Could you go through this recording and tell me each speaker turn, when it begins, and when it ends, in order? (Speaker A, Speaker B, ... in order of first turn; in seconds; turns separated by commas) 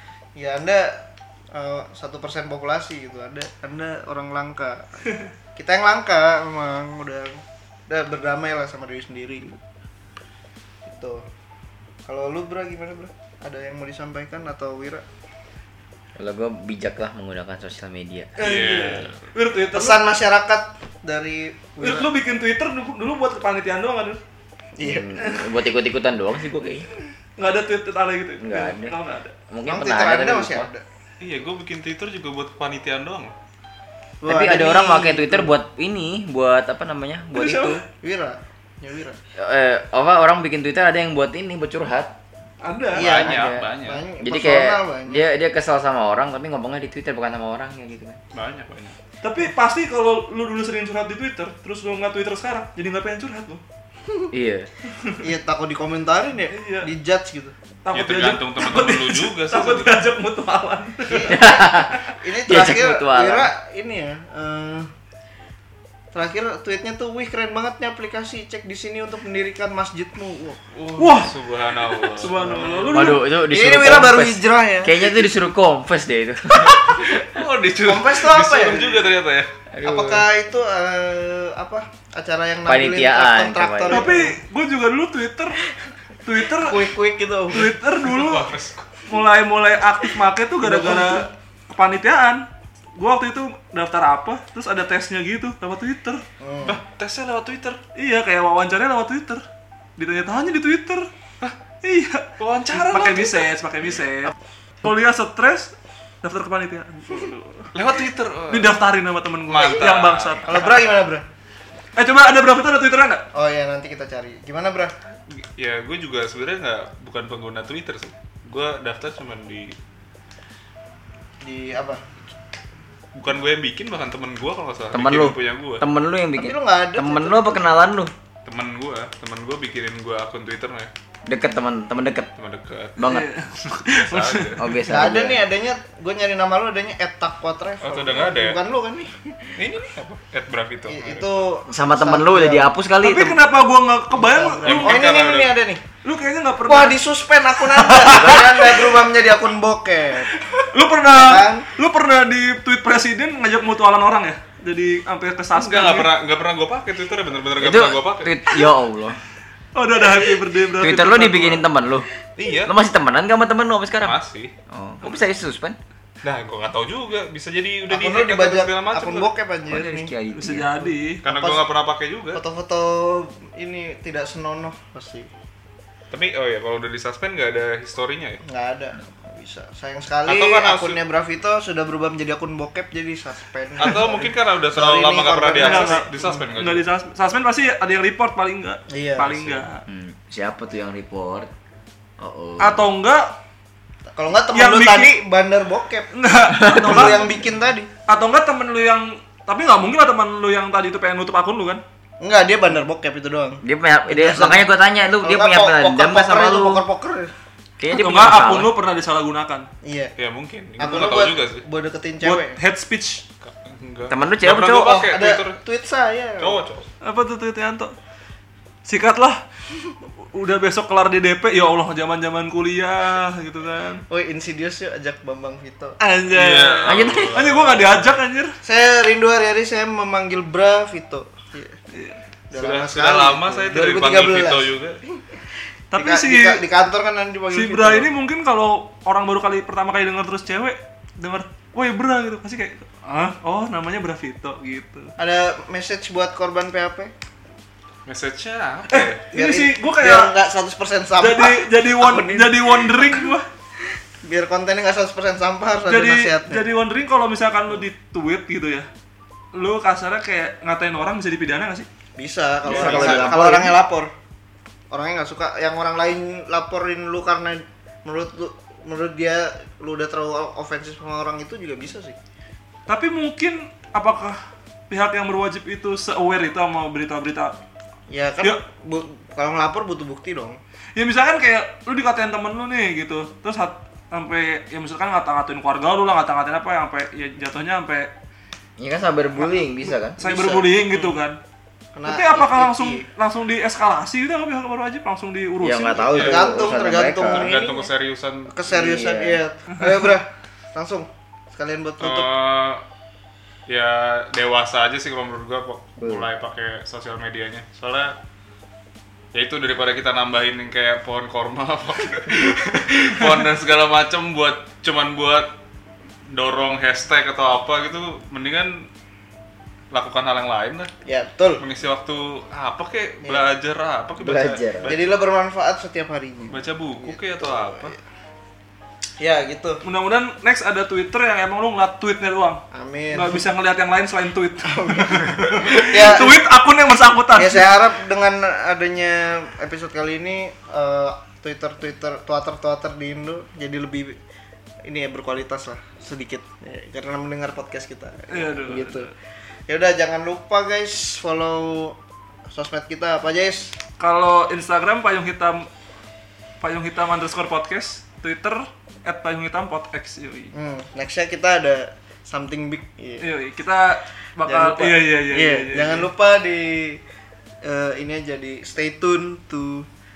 Speaker A: 0.4-5.0, Speaker A: 5.6-9.6, Speaker A: 10.9-11.2, Speaker A: 12.1-15.1, Speaker B: 16.2-18.5, Speaker C: 18.4-20.0, Speaker D: 18.4-19.2, Speaker A: 19.7-22.1, Speaker C: 21.8-24.2, Speaker A: 24.8-25.1, Speaker B: 24.8-26.9, Speaker C: 27.4-29.3, Speaker B: 28.4-28.9, Speaker B: 29.5-30.7, Speaker A: 29.7-30.8, Speaker D: 31.2-33.3, Speaker A: 34.2-35.6, Speaker B: 34.3-37.8, Speaker C: 37.4-37.8, Speaker A: 38.0-39.2, Speaker B: 39.4-42.1, Speaker C: 42.6-43.1, Speaker A: 42.9-45.3, Speaker D: 43.0-44.0, Speaker B: 43.0-43.7, Speaker B: 44.2-48.2, Speaker D: 48.3-49.0, Speaker C: 49.2-53.6, Speaker B: 54.3-54.7, Speaker C: 55.0-55.2, Speaker A: 55.2-57.5, Speaker C: 56.5-56.9, Speaker C: 57.9-61.8, Speaker D: 57.9-60.0, Speaker A: 61.1-64.9, Speaker B: 61.1-63.5, Speaker A: 66.1-70.6, Speaker D: 70.8-72.9, Speaker C: 71.0-71.3, Speaker C: 72.2-73.2, Speaker A: 72.3-72.9, Speaker B: 72.9-77.2, Speaker A: 73.5-75.2, Speaker D: 76.7-79.5, Speaker A: 77.8-79.0, Speaker B: 79.7-80.2, Speaker A: 79.8-84.3, Speaker B: 82.7-84.1, Speaker C: 83.9-85.6, Speaker C: 86.2-86.9, Speaker A: 86.5-87.8, Speaker C: 87.5-88.5, Speaker D: 88.0-89.0, Speaker C: 89.1-96.2, Speaker A: 90.6-91.3, Speaker A: 96.4-96.8, Speaker D: 96.7-97.8, Speaker C: 98.0-99.5, Speaker C: 100.0-101.1, Speaker C: 101.8-107.7, Speaker D: 102.4-103.5, Speaker D: 107.7-108.8, Speaker C: 108.5-110.8, Speaker D: 109.5-110.5, Speaker A: 110.5-111.3, Speaker C: 112.0-113.2, Speaker A: 113.3-114.9, Speaker D: 115.3-119.8, Speaker A: 121.4-122.0, Speaker D: 123.2-125.8, Speaker B: 124.9-128.1, Speaker A: 126.4-127.8, Speaker D: 128.4-130.9, Speaker B: 131.3-132.3, Speaker D: 132.4-133.0, Speaker B: 133.0-133.3, Speaker C: 133.0-134.6, Speaker D: 133.8-134.8, Speaker B: 134.6-135.4, Speaker A: 134.9-139.6, Speaker D: 137.8-138.6, Speaker D: 139.6-141.4, Speaker A: 140.9-142.7, Speaker B: 141.7-143.4, Speaker C: 143.0-145.1, Speaker A: 144.2-145.8, Speaker D: 144.7-145.6, Speaker C: 146.0-147.0, Speaker A: 146.7-150.4, Speaker C: 147.6-149.0, Speaker C: 150.6-156.1, Speaker A: 151.1-151.7, Speaker D: 155.5-158.3, Speaker B: 157.6-159.2, Speaker C: 159.8-161.7, Speaker B: 160.8-162.1, Speaker D: 162.4-162.7, Speaker B: 162.7-164.2, Speaker D: 164.0-164.5, Speaker B: 164.7-165.8, Speaker D: 166.2-169.3, Speaker A: 167.9-170.1, Speaker B: 169.7-170.9, Speaker C: 170.3-171.2, Speaker D: 171.2-172.4, Speaker A: 171.3-171.7, Speaker A: 172.3-175.3, Speaker D: 176.1-178.4, Speaker A: 178.4-186.3, Speaker D: 180.3-181.0, Speaker D: 183.8-186.9, Speaker C: 185.6-189.8, Speaker A: 188.9-189.6, Speaker D: 189.4-189.6, Speaker B: 189.9-191.5, Speaker B: 192.2-192.9, Speaker C: 192.6-193.4, Speaker A: 194.1-196.1, Speaker C: 194.5-195.1, Speaker C: 196.1-197.2, Speaker B: 196.5-197.4, Speaker A: 196.7-197.9, Speaker C: 198.1-201.8, Speaker A: 202.2-204.7, Speaker B: 203.6-206.8, Speaker A: 205.2-207.3, Speaker B: 207.8-208.7, Speaker C: 207.9-209.7, Speaker A: 209.8-210.1, Speaker D: 210.2-211.7, Speaker A: 210.8-212.6, Speaker C: 212.2-213.2, Speaker D: 213.4-215.6, Speaker B: 214.1-215.0, Speaker A: 214.8-216.6, Speaker D: 216.4-216.9, Speaker C: 217.0-217.9, Speaker C: 218.9-219.4, Speaker C: 220.2-224.0, Speaker A: 224.1-226.0, Speaker C: 226.0-228.6, Speaker D: 226.3-228.1, Speaker B: 226.9-227.4, Speaker A: 228.6-231.8, Speaker C: 231.9-232.2, Speaker A: 232.5-235.4, Speaker D: 232.5-235.0, Speaker C: 235.9-236.6, Speaker A: 236.0-238.1, Speaker C: 237.5-245.1, Speaker A: 245.2-247.1, Speaker D: 248.1-249.2, Speaker C: 248.9-250.3, Speaker A: 249.3-253.3, Speaker C: 251.2-253.5, Speaker A: 254.2-256.6, Speaker C: 255.9-258.9, Speaker C: 259.6-261.9, Speaker A: 262.2-264.1, Speaker B: 262.6-263.8, Speaker C: 262.7-263.4, Speaker A: 264.9-272.2, Speaker C: 272.9-277.6, Speaker A: 278.1-280.6, Speaker C: 281.0-288.1, Speaker B: 288.8-290.2, Speaker A: 290.2-290.9, Speaker C: 290.2-291.4, Speaker A: 291.9-293.1, Speaker C: 292.1-296.3, Speaker B: 295.6-297.5, Speaker D: 296.1-296.5, Speaker A: 296.2-297.9, Speaker D: 297.2-298.5, Speaker A: 298.5-302.3, Speaker B: 298.7-299.4, Speaker C: 299.7-300.1, Speaker D: 302.0-302.8, Speaker D: 303.7-308.1, Speaker B: 306.0-306.3, Speaker D: 309.3-315.5, Speaker D: 316.3-318.9, Speaker D: 319.9-320.9, Speaker A: 321.1-321.6, Speaker D: 321.6-325.1, Speaker B: 324.2-324.9, Speaker A: 324.8-328.0, Speaker D: 326.5-328.0, Speaker A: 329.2-329.8, Speaker C: 329.8-332.6, Speaker A: 332.7-333.4, Speaker C: 333.1-337.7, Speaker A: 334.6-336.4, Speaker A: 337.4-344.2, Speaker A: 344.9-349.1, Speaker C: 348.3-349.1, Speaker A: 349.7-352.0, Speaker A: 352.5-353.8, Speaker C: 354.0-355.7, Speaker C: 356.6-360.5, Speaker A: 360.5-363.3, Speaker C: 363.2-366.1, Speaker A: 364.5-367.0, Speaker A: 367.6-369.9